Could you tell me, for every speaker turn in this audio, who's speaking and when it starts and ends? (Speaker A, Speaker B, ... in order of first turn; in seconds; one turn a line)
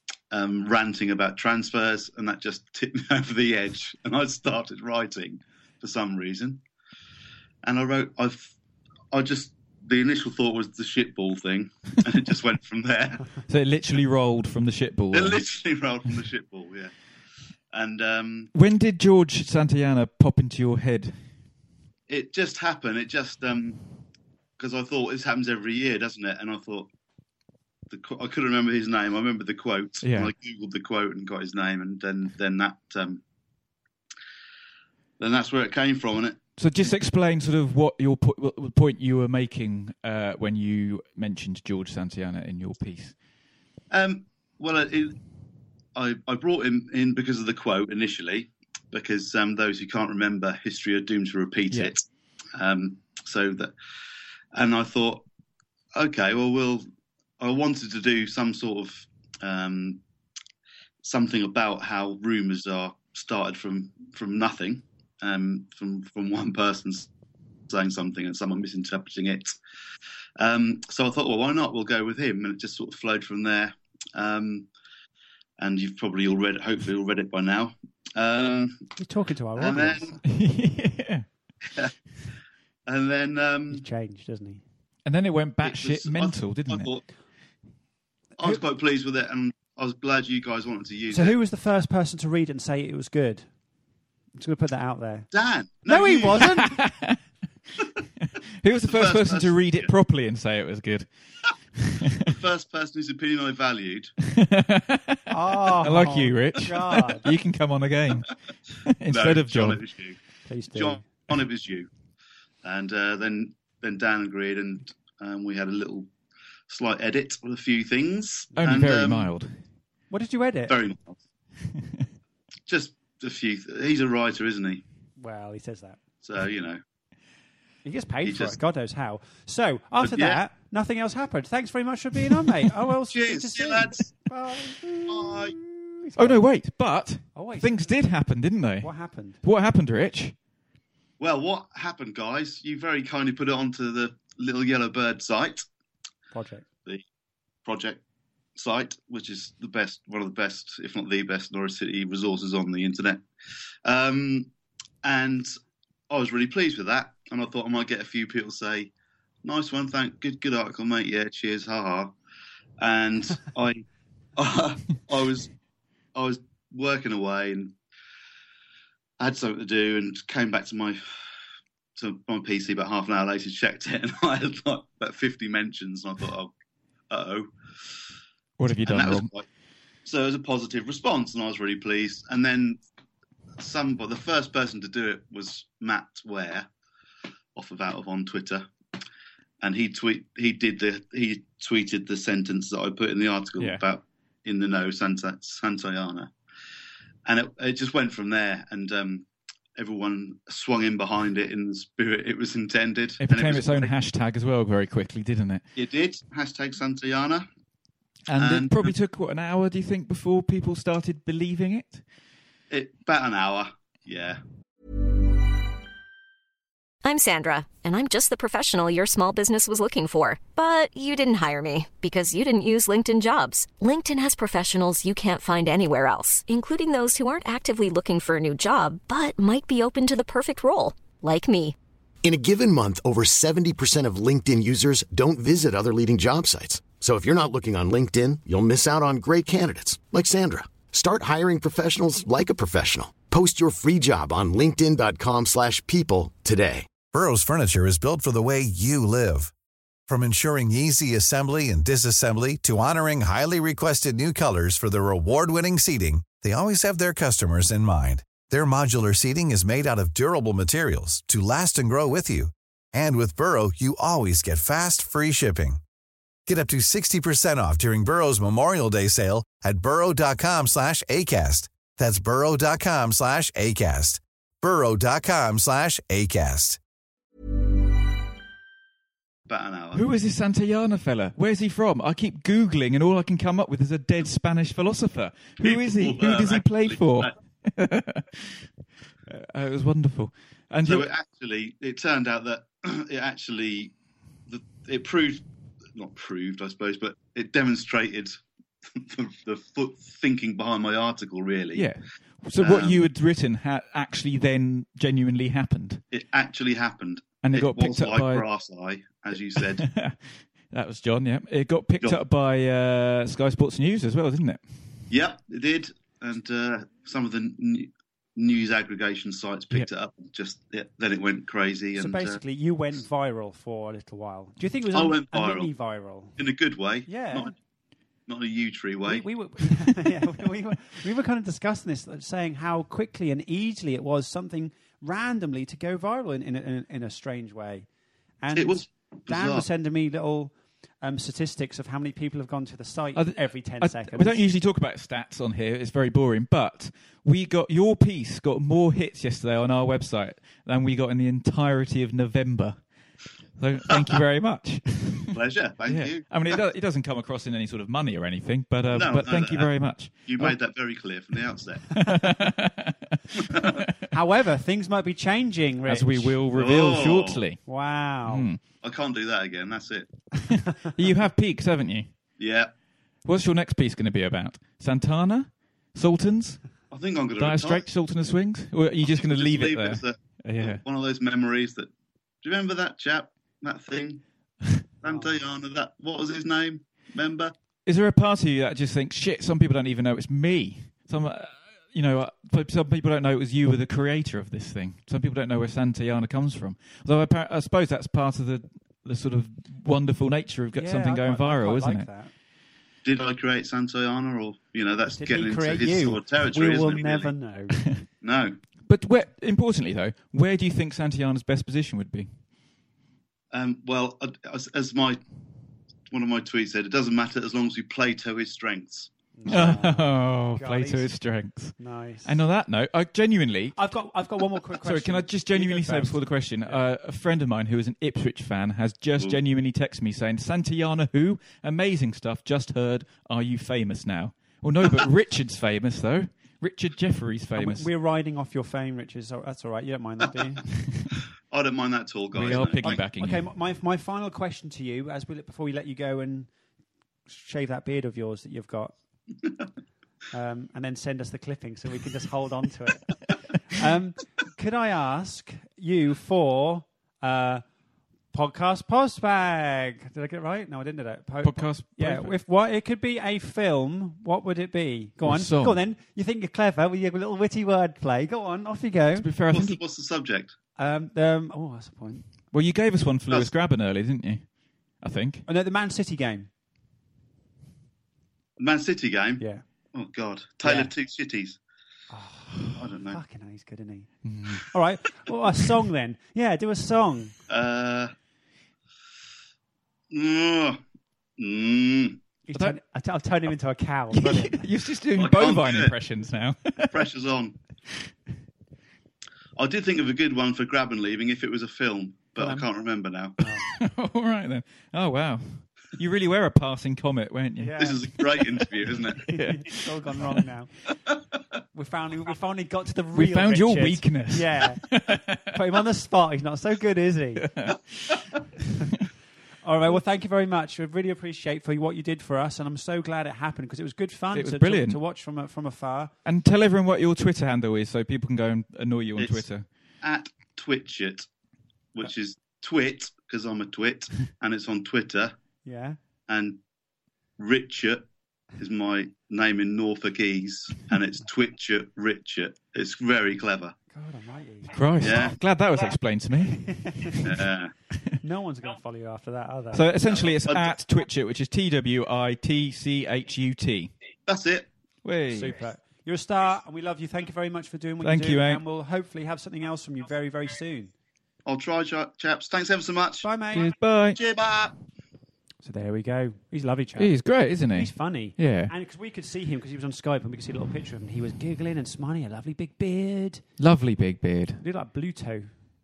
Speaker A: 0.3-6.6
Speaker A: 7.6-8.5
Speaker A: 9.1-13.3
Speaker B: 13.5-15.4
Speaker A: 15.1-16.9
Speaker A: 17.7-18.5
Speaker B: 18.5-21.2
Speaker A: 22.1-23.8
Speaker A: 24.6-26.9
Speaker A: 27.9-33.2
Speaker B: 30.0-30.3
Speaker A: 35.2-36.4
Speaker B: 36.6-43.1
Speaker A: 43.9-45.2
Speaker A: 46.0-52.0
Speaker A: 52.6-53.7
Speaker A: 54.5-55.2
Speaker A: 56.0-56.9
Speaker A: 57.4-60.0
Speaker A: 61.0-67.1
Speaker A: 67.7-69.6
Speaker A: 70.4-74.7
Speaker A: 75.6-78.8
Speaker C: 79.0-80.1
Speaker A: 79.6-80.2
Speaker B: 80.2-81.3
Speaker A: 82.9-83.8
Speaker C: 83.7-84.6
Speaker B: 85.1-86.9
Speaker A: 85.6-87.0
Speaker A: 88.4-91.4
Speaker C: 91.1-93.5
Speaker C: 94.4-95.3
Speaker A: 95.3-96.5
Speaker C: 95.8-96.8
Speaker B: 96.4-97.2
Speaker B: 98.6-101.1
Speaker A: 98.9-99.9
Speaker B: 101.8-102.3
Speaker A: 102.3-104.1
Speaker B: 104.3-108.3
Speaker C: 105.3-107.3
Speaker B: 108.8-109.8
Speaker A: 109.1-110.2
Speaker C: 110.5-111.0
Speaker A: 110.7-111.9
Speaker A: 112.6-116.1
Speaker A: 116.7-119.3
Speaker B: 118.6-119.5
Speaker C: 120.1-120.8
Speaker A: 120.7-121.2
Speaker A: 122.7-124.8
Speaker C: 125.2-126.0
Speaker A: 126.2-126.8
Speaker C: 127.8-136.4
Speaker A: 128.2-128.6
Speaker A: 130.0-130.4
Speaker A: 133.1-134.1
Speaker A: 135.1-135.6
Speaker B: 136.2-140.3
Speaker C: 137.3-138.0
Speaker C: 138.8-139.4
Speaker A: 141.2-145.7
Speaker C: 146.3-146.7
Speaker A: 147.7-148.0
Speaker A: 148.6-153.2
Speaker A: 153.8-154.5
Speaker A: 155.0-155.5
Speaker A: 156.1-158.9
Speaker A: 159.4-162.2
Speaker A: 162.8-163.8
Speaker A: 164.4-165.5
Speaker A: 166.2-167.8
Speaker A: 169.2-171.1
Speaker A: 172.0-176.5
Speaker A: 177.1-177.5
Speaker B: 178.6-179.3
Speaker A: 178.8-179.5
Speaker A: 180.1-182.8
Speaker A: 183.6-186.7
Speaker A: 187.6-188.7
Speaker A: 189.6-196.3
Speaker A: 197.3-203.9
Speaker B: 203.2-205.7
Speaker A: 205.8-207.5
Speaker B: 208.3-212.0
Speaker A: 208.3-208.9
Speaker A: 212.7-214.4
Speaker D: 217.0-231.8
Speaker E: 232.2-246.9
Speaker F: 247.1-249.5
Speaker F: 250.1-265.8
Speaker F: 266.5-276.8
Speaker A: 279.5-280.1
Speaker B: 279.9-288.7
Speaker A: 285.6-287.3
Speaker B: 289.3-291.1
Speaker A: 290.9-293.9
Speaker A: 294.5-295.4
Speaker A: 295.9-298.4
Speaker A: 298.9-301.9
Speaker B: 301.8-306.0
Speaker A: 302.6-303.0
Speaker A: 306.1-309.9
Speaker B: 307.4-308.5
Speaker B: 309.6-310.2
Speaker B: 310.7-314.6
Speaker A: 315.1-322.4
Speaker C: 321.9-326.4
Speaker A: 324.9-325.7
Speaker A: 326.4-327.6
Speaker C: 327.1-327.5
Speaker A: 328.3-329.3
Speaker C: 329.1-337.9
Speaker C: 338.4-344.4
Speaker A: 338.6-339.7
Speaker B: 343.1-352.8
Speaker B: 353.6-360.6
Speaker A: 355.3-356.4
Speaker A: 358.9-362.1
Speaker B: 361.9-363.9
Speaker A: 363.4-363.9
Speaker C: 364.1-366.4
Speaker B: 365.9-367.6
Speaker A: 366.5-367.4
Speaker C: 367.7-368.5
Speaker B: 368.3-368.6
Speaker A: 368.7-370.1
Speaker B: 370.9-372.1
Speaker A: 372.4-372.7
Speaker B: 373.2-376.6
Speaker A: 376.9-377.9
Speaker B: 377.4-380.8
Speaker A: 379.0-381.9
Speaker A: 382.4-384.2
Speaker A: 385.0-387.5
Speaker C: 385.0-385.4
Speaker B: 387.9-402.1
Speaker C: 400.8-402.3
Speaker A: 403.0-407.3
Speaker C: 405.1-407.8
Speaker A: 408.2-408.6
Speaker B: 408.9-412.3
Speaker A: 413.5-415.2
Speaker A: 416.1-419.7
Speaker C: 419.4-421.1
Speaker B: 419.5-423.8
Speaker C: 421.8-422.4
Speaker C: 423.8-426.8
Speaker B: 424.8-437.9
Speaker C: 437.6-440.6
Speaker A: 441.5-443.0
Speaker B: 442.3-443.4
Speaker C: 442.8-446.5
Speaker C: 447.3-448.9
Speaker C: 450.3-457.6
Speaker C: 458.3-469.3
Speaker B: 461.4-462.4
Speaker B: 465.2-465.8
Speaker B: 469.2-469.8
Speaker A: 469.5-470.6
Speaker C: 470.8-472.2
Speaker B: 472.5-474.5
Speaker B: 475.0-475.5
Speaker C: 475.5-476.5
Speaker A: 478.6-481.6
Speaker C: 480.6-480.9
Speaker C: 482.1-484.1
Speaker A: 482.8-483.2
Speaker B: 484.2-484.6
Speaker C: 484.7-487.3
Speaker A: 487.5-488.1
Speaker A: 490.1-490.8
Speaker A: 491.4-492.2
Speaker C: 492.5-494.6
Speaker B: 494.1-497.0
Speaker A: 495.1-495.9
Speaker A: 496.9-497.6
Speaker A: 499.6-503.5
Speaker C: 502.4-502.7
Speaker C: 503.4-503.6
Speaker B: 503.7-509.8
Speaker C: 507.6-508.1
Speaker A: 507.8-509.3
Speaker C: 509.3-510.7
Speaker C: 511.7-517.5
Speaker B: 513.1-515.4
Speaker B: 517.4-517.8
Speaker C: 519.6-526.1
Speaker B: 524.3-525.0
Speaker B: 526.2-529.7
Speaker A: 529.2-529.5
Speaker A: 530.0-531.3
Speaker A: 532.0-535.3
Speaker C: 535.6-536.0
Speaker A: 536.3-536.6
Speaker A: 537.4-543.8
Speaker C: 543.9-544.8
Speaker B: 544.7-547.2
Speaker A: 545.0-545.4
Speaker C: 546.5-547.3
Speaker A: 547.2-547.7
Speaker C: 548.2-549.9
Speaker B: 549.7-553.9
Speaker A: 550.1-550.8
Speaker A: 554.3-554.7
Speaker B: 555.0-555.6
Speaker C: 555.3-560.9
Speaker B: 558.0-558.6
Speaker A: 561.5-563.3
Speaker C: 563.2-563.7
Speaker B: 563.5-564.2
Speaker A: 564.1-564.7
Speaker C: 565.6-573.4
Speaker B: 567.0-568.7
Speaker B: 573.6-574.6
Speaker C: 574.6-575.7